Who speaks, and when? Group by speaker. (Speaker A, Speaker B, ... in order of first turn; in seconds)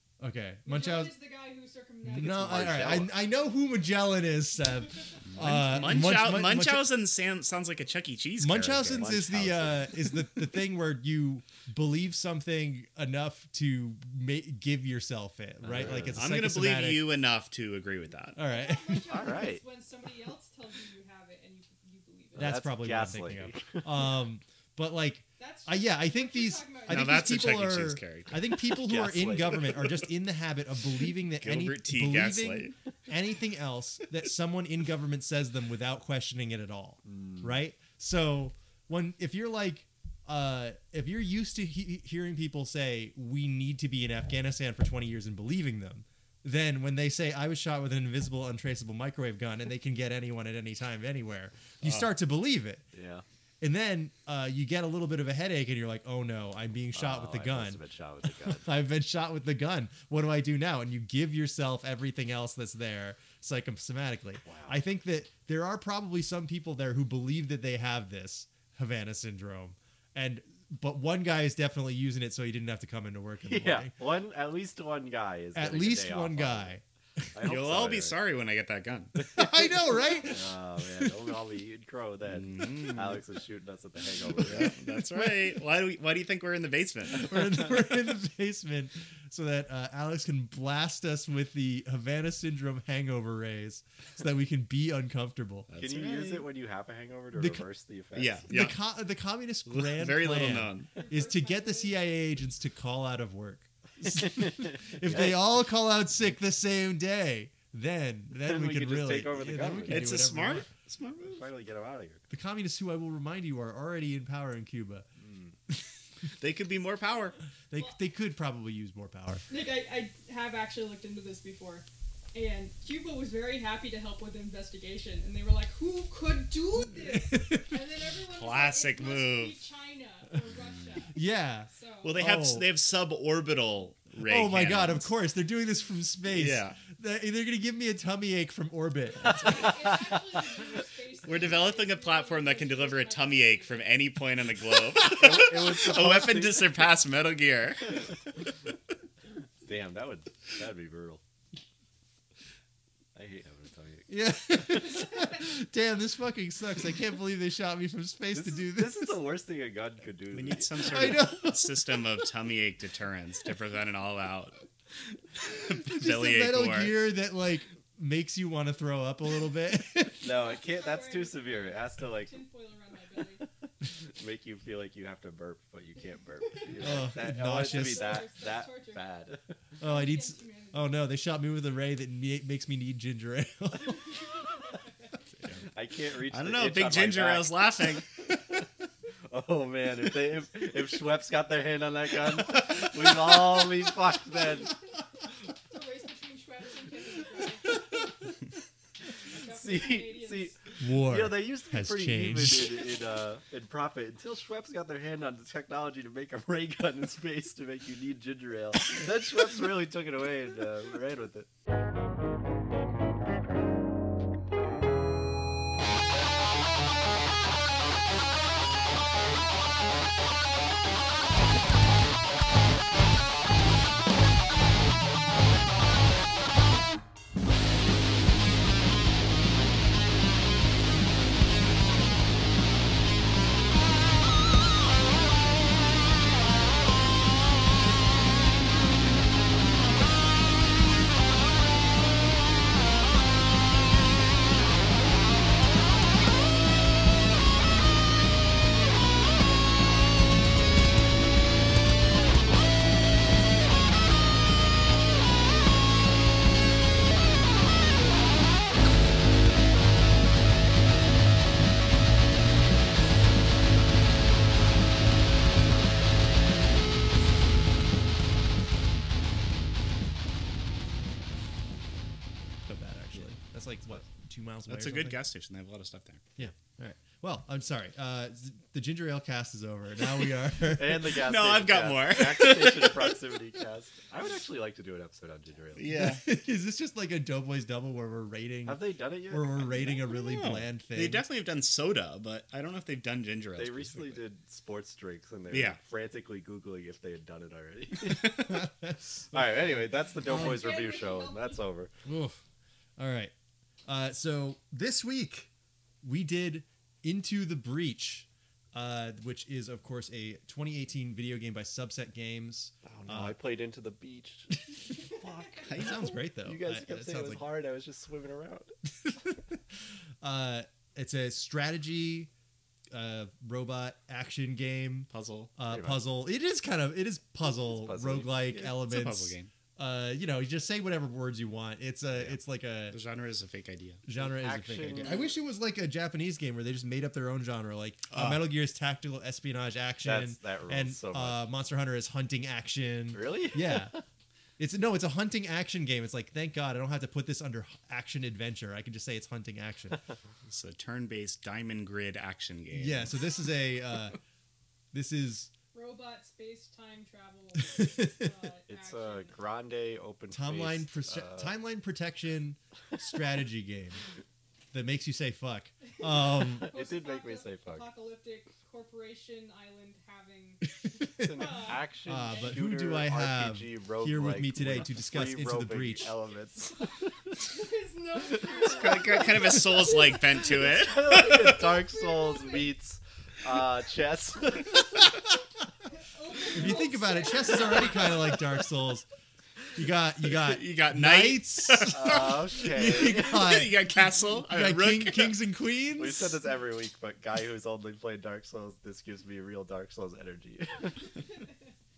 Speaker A: 0.2-1.1, 2.0-6.9, 8.4-17.0, 18.4-19.2, 22.3-52.8, 53.6-57.8, 58.5-73.9, 75.5-76.8, 79.3-81.2, 84.9-85.5, 87.1-95.7, 97.3-97.6, 98.5-110.7, 112.3-115.0, 117.7-119.4, 127.0-127.8, 131.1-132.7, 134.2-139.9, 154.1-159.2, 160.8-162.0, 165.9-170.2, 176.8-178.2, 179.8-184.2, 200.8-202.8, 272.7-275.2, 276.4-281.1, 285.9-291.2, 298.2-300.6, 302.0-302.4, 303.0-303.3, 303.9-305.5, 306.0-313.4, 315.7-317.5, 319.0-319.6, 320.2-322.3, 322.9-333.0, 334.1-343.9, 344.6-350.0, 352.7-354.2, 354.9-355.5, 357.6-358.3, 360.3-364.0, 364.7-366.7, 370.7-376.2, 386.5-389.1, 389.7-396.4
Speaker B: 0.6-3.1, 18.5-22.6, 25.4-27.7, 100.9-102.0, 119.5-131.1, 131.7-132.2, 139.2-143.8, 170.3-173.4, 176.4-179.1, 179.8-180.9, 195.7-197.8, 199.3-200.6, 300.2-301.6, 355.7-359.4, 366.1-372.4, 377.4-380.5, 381.3-382.7, 385.9-388.4
Speaker C: 2.1-3.1, 8.8-10.1, 15.6-16.2, 19.1-19.6, 22.4-24.0, 28.8-29.9, 37.0-37.5, 52.9-53.2, 56.9-58.7, 64.4-64.8, 73.4-76.7, 77.3-78.2, 79.2-84.7, 95.8-98.4, 105.0-105.4, 108.4-110.2, 111.2-112.2, 115.2-115.5, 145.0-146.8, 149.6-151.2, 153.1-154.1, 158.3-161.3, 170.2-172.4, 174.0-179.4, 185.7-188.0, 189.3-194.7, 199.4-211.5, 280.7-285.9, 288.6-290.0, 293.6-298.6, 299.3-301.9, 313.0-318.7, 325.7-326.0, 327.4-328.6, 334.1-335.3, 340.0-341.4, 343.1-344.0, 358.7-361.5, 366.3-367.8, 371.2-376.9, 378.3-379.2, 380.4-385.1, 391.9-393.4, 395.9-401.3
Speaker D: 5.3-9.1, 16.1-18.4, 26.9-28.6, 31.4-32.7, 51.8-52.1, 77.4-79.1, 82.2-83.2, 84.4-87.3, 95.7-96.5, 98.1-98.8, 99.7-100.9, 109.8-111.4, 116.4-117.4, 128.3-129.5, 132.0-135.1, 136.3-136.8, 141.2-148.0, 160.3-164.6, 165.5-167.0, 186.3-188.0, 274.7-276.2, 281.1-283.2, 285.8-286.2, 290.1-294.2, 295.5-295.8, 315.7-316.2, 325.1-325.5, 328.5-329.5, 332.9-334.0, 334.9-335.2, 338.1-338.4, 350.5-353.1, 378.5-381.6, 390.4-395.4